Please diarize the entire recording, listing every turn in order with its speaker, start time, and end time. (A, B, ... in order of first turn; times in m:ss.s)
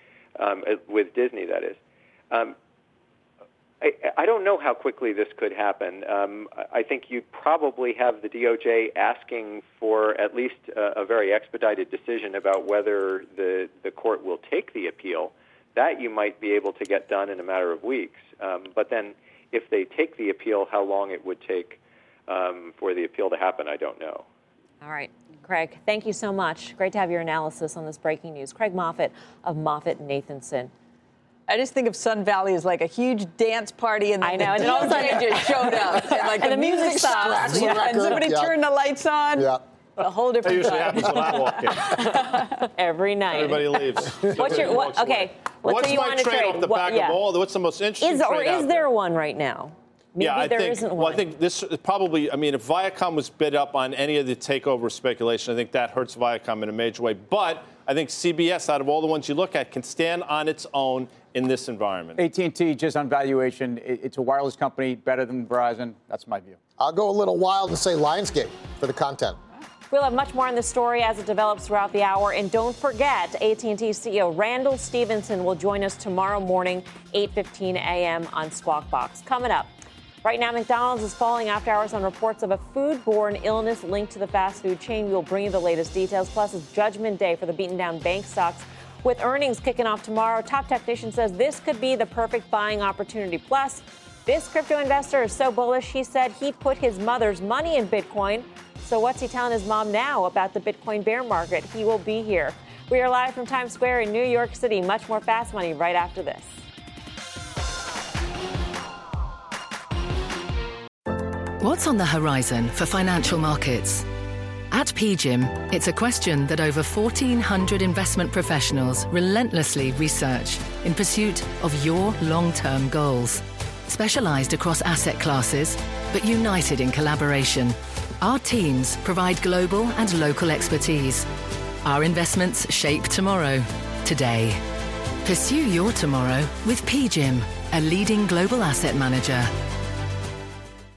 0:00.4-0:01.8 A
0:03.8-0:24.3 A
0:24.8-0:30.7 B
0:31.5-0:42.6 C
0:34.2-0:38.2 B
0:36.0-0:38.6 D
0:40.4-0:42.4 E
0:42.1-0:47.2 B
0:43.3-0:48.9 E
0:48.0-0:51.2 B
0:50.2-1:02.2 E
1:02.2-1:06.6 F
1:06.8-1:09.4 D
1:09.9-1:19.7 B
1:20.2-1:46.6 B
1:51.6-1:54.1 G
1:54.7-2:11.3 G
2:11.8-2:14.6 G
2:15.2-2:19.5 G